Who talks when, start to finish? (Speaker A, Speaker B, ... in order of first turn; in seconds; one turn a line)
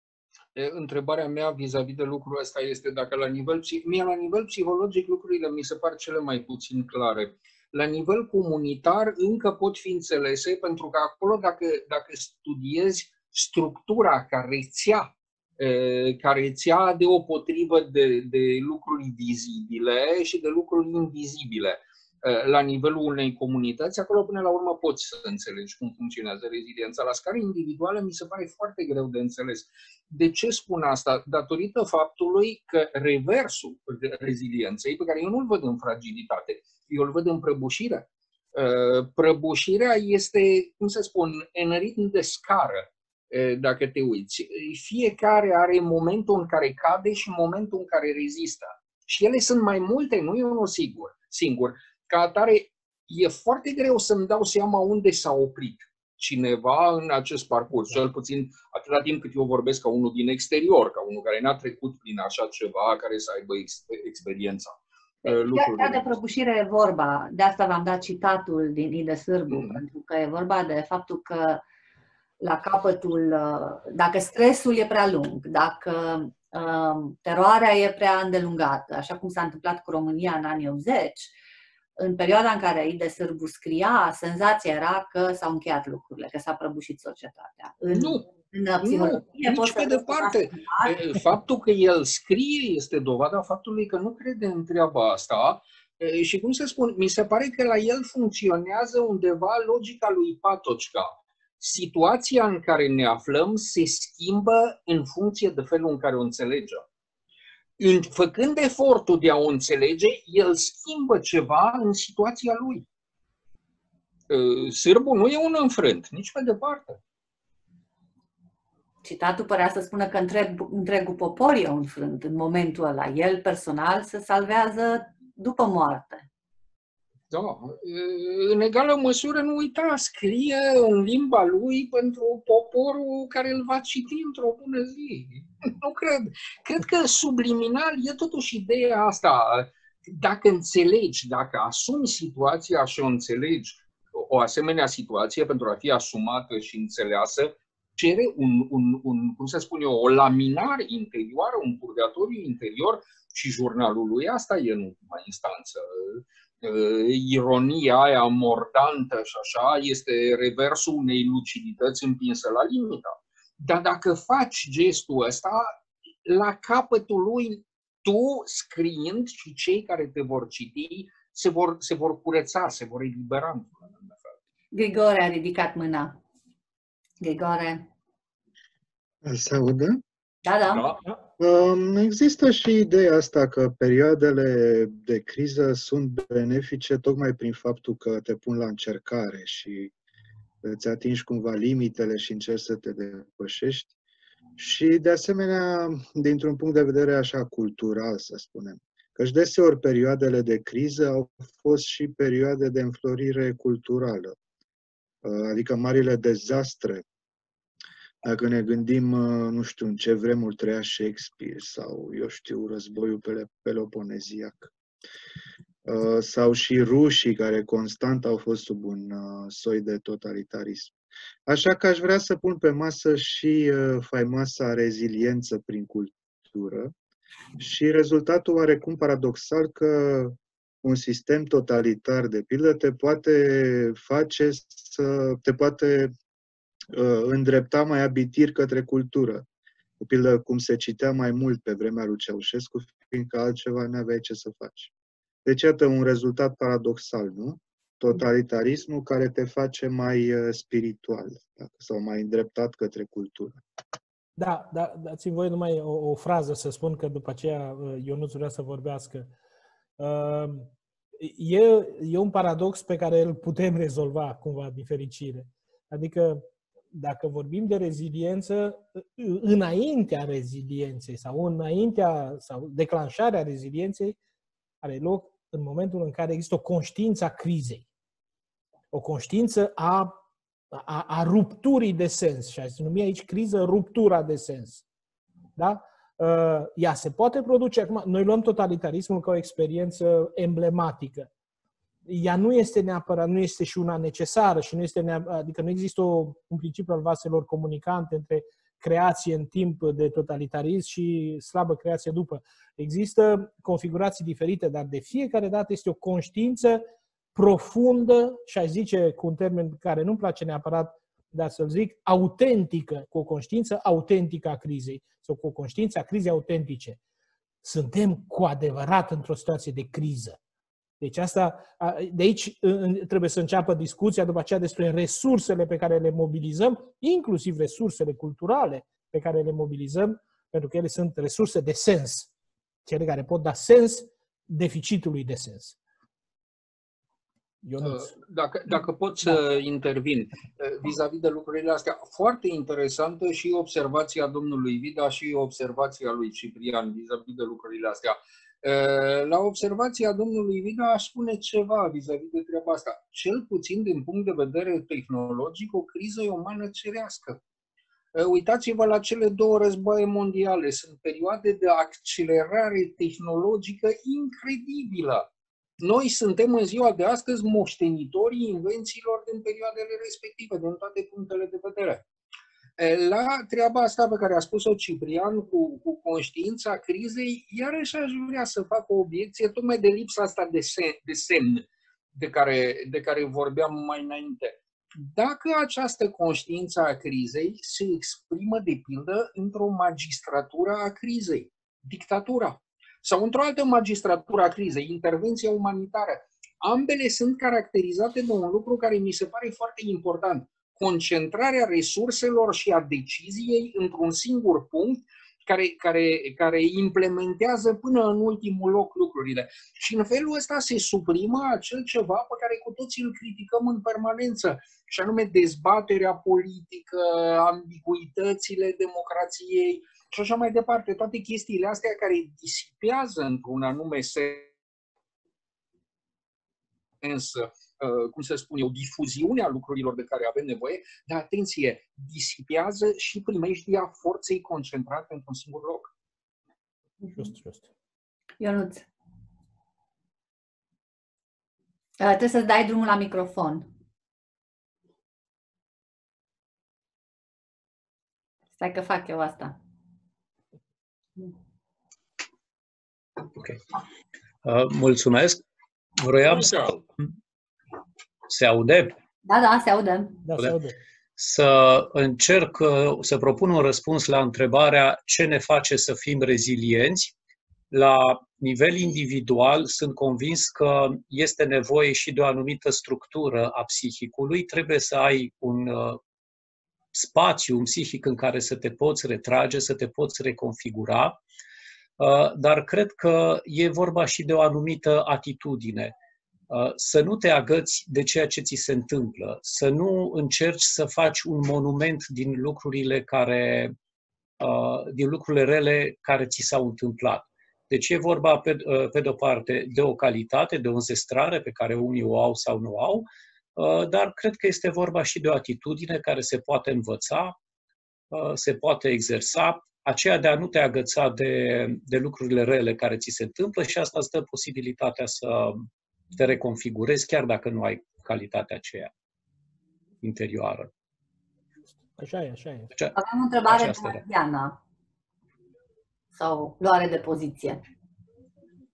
Speaker A: 0.5-66.0
Speaker B: 65.2-71.6
Speaker A: 69.5-69.8
Speaker B: 72.4-81.3
Speaker B: 82.0-91.0
Speaker A: 87.8-88.2
Speaker A: 88.8-106.8
Speaker A: 107.8-112.8
Speaker A: 114.3-117.0
Speaker B: 119.0-126.2
Speaker A: 127.3-174.4
Speaker B: 174.7-176.2
Speaker B: 177.2-177.9
Speaker C: 179.2-180.0
Speaker B: 180.4-180.9
Speaker A: 180.7-181.0
Speaker C: 181.4-189.9
Speaker C: 190.6-193.9
Speaker C: 194.6-204.3
Speaker C: 205.2-207.0
Speaker C: 208.2-214.7
Speaker C: 215.8-220.9
Speaker C: 221.5-226.9
Speaker C: 227.6-236.1
Speaker C: 236.9-239.4
Speaker C: 240.0-244.9
Speaker C: 245.4-253.6
Speaker D: 254.4-259.3
Speaker D: 260.0-274.2
Speaker D: 274.8-277.8
Speaker D: 278.9-280.1
Speaker D: 280.7-284.8
Speaker D: 285.6-291.3
Speaker D: 292.1-317.0
Speaker D: 317.6-320.4
Speaker D: 321.0-332.3
Speaker D: 332.8-335.8
Speaker D: 337.6-338.1
Speaker A: 337.8-357.4
Speaker A: 358.1-365.3
Speaker A: 365.8-372.1
Speaker A: 372.8-424.5
Speaker A: 427.0-435.9
Speaker D: 437.1-437.6
Speaker B: 438.4-438.9
Speaker B: 442.0-443.7
Speaker B: 448.6-449.6
Speaker E: 454.4-455.4
Speaker E: 456.0-457.1
Speaker A: 456.3-456.8
Speaker E: 458.3-458.9
Speaker B: 459.2-460.2
Speaker D: 460.2-460.8
Speaker E: 461.2-467.1
Speaker E: 467.7-476.0
Speaker E: 476.9-481.2
Speaker E: 482.0-486.0
Speaker E: 486.5-493.7
Speaker E: 494.4-507.4
Speaker E: 508.1-518.9
Speaker E: 520.0-520.7
Speaker D: 522.0-522.7
Speaker B: 522.9-524.6
Speaker E: 523.5-524.0
Speaker B: 526.1-527.6